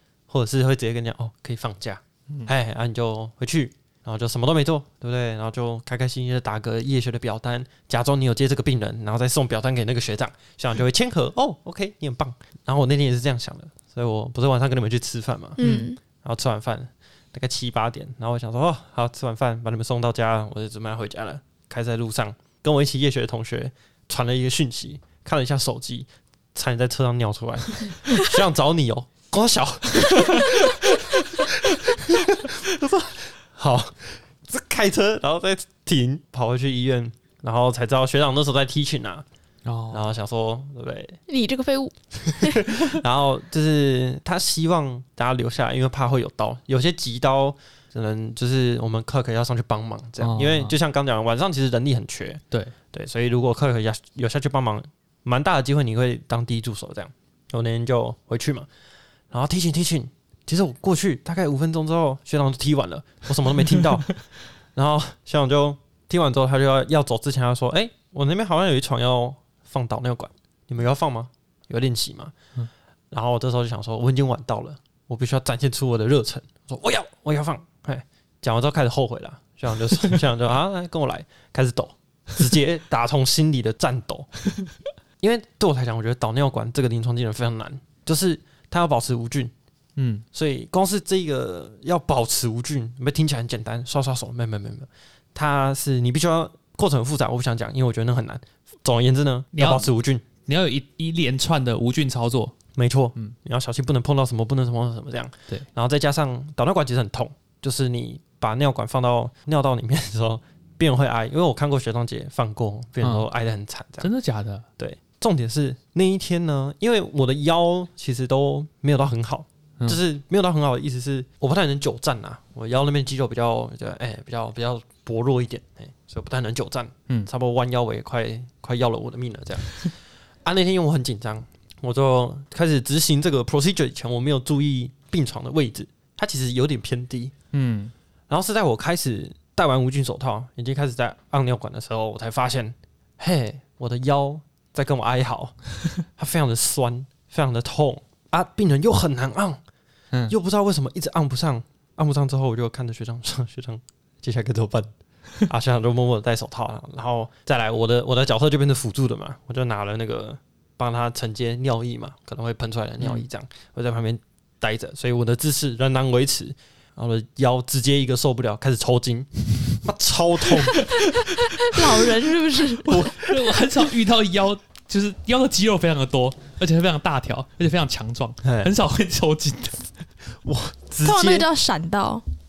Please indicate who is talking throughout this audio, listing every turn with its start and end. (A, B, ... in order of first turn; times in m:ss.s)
0:00.3-0:15.6 A
0:15.6-0:16.0 B
0:15.6-0:15.9 C
0:16.2-0:39.2 A
0:39.6-0:40.1 C
0:39.9-0:41.2 A
0:41.3-0:42.7 B
0:42.4-0:52.4 A
0:50.2-0:50.7 C
0:52.9-0:58.7 A
0:59.3-1:04.2 A
1:04.8-1:12.4 A
1:13.1-1:24.3 A
1:25.2-1:29.5 A
1:30.0-1:30.2 C
1:30.3-1:40.3 A
1:39.6-1:39.9 C
1:40.4-1:42.6 C
1:42.8-1:54.1 A
1:54.0-1:54.7 C
1:54.8-2:09.9 A
2:10.4-2:17.3 A
2:17.5-2:17.9 C
2:18.3-2:25.6 A
2:26.2-2:29.6 A
2:30.3-2:34.9 A
2:35.5-2:50.8 A
2:43.0-2:43.3 C
2:50.8-2:51.8 C
2:51.6-2:53.0 B
2:52.8-2:59.9 C
2:52.9-2:53.6 A
2:58.4-2:58.7 A
3:00.4-3:01.5 A
3:01.0-3:02.2 B